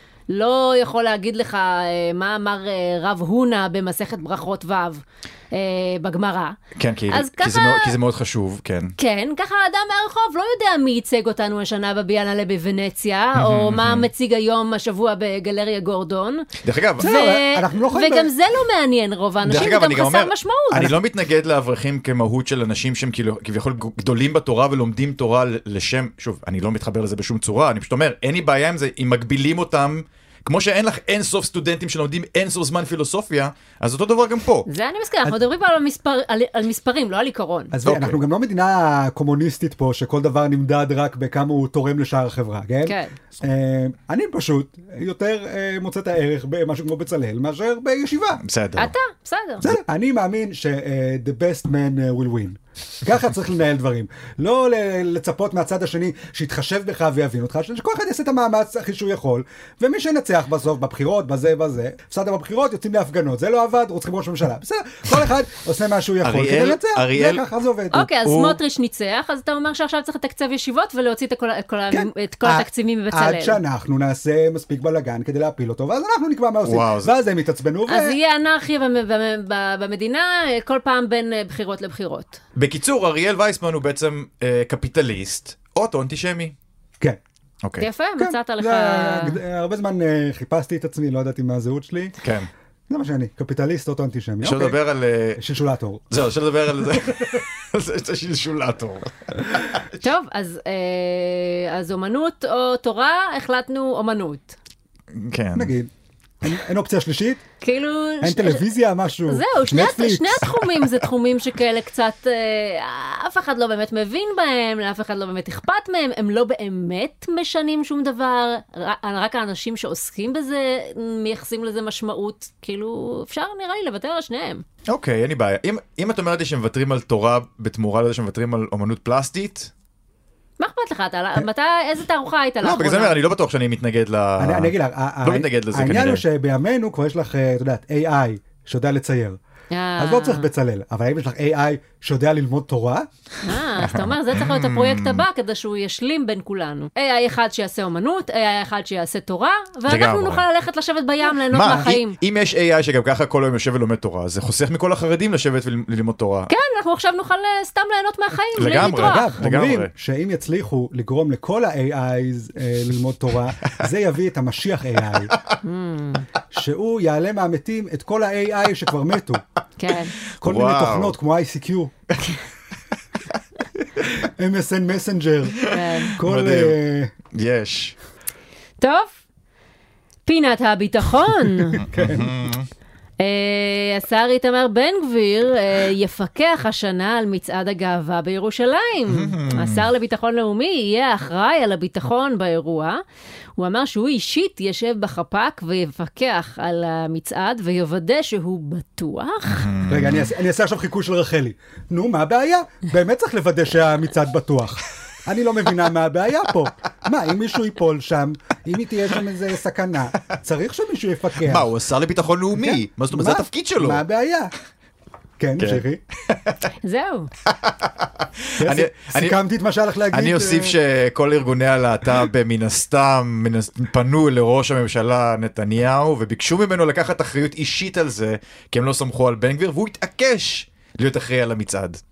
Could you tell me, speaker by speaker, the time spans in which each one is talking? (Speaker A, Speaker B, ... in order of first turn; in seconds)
Speaker A: 0.3-6.6, 7.1-8.0, 9.0-16.5, 17.0-20.9, 34.7-37.7, 42.9-43.1, 48.8-49.7, 67.9-73.6, 77.9-82.4, 87.8-89.4, 100.0-104.5, 107.6-108.7, 109.3-124.6, 130.6-133.2, 139.7-140.5, 143.4-152.2, 156.5-159.3, 165.6-166.3, 169.8-170.2, 175.7-176.2, 178.8-179.2, 180.2-181.8, 183.2-193.0, 193.6-199.7, 216.8-217.3
Speaker B: 6.8-8.9, 13.3-14.1, 16.6-17.2, 19.4-34.7, 37.8-38.2, 48.4-48.9, 66.2-67.4, 68.1-68.6, 76.6-77.1, 82.5-86.5, 87.6-87.9, 92.2-92.5, 94.4-95.4, 96.1-99.9, 105.1-105.7, 124.9-129.7, 132.6-136.2, 143.8-145.2, 149.9-150.4, 151.5-156.5, 158.5-159.9, 165.3-165.6, 170.4-171.2, 175.6-176.8, 177.3-177.9, 181.9-182.7, 189.1-189.9, 199.4-200.3, 211.4-214.0, 215.6-216.7, 217.4-219.4, 220.1-232.0
Speaker C: 17.0-18.3, 37.7-48.4, 49.6-68.1, 71.9-78.2, 88.2-92.2, 92.9-94.8, 95.4-96.0, 105.5-105.9, 106.4-107.4, 108.2-110.5, 134.4-139.4, 140.0-143.1, 158.8-165.3, 166.5-169.4, 170.4-171.9, 174.0-177.1, 181.7-182.4, 199.9-211.7, 212.6-214.5, 215.4-216.0, 218.6-220.7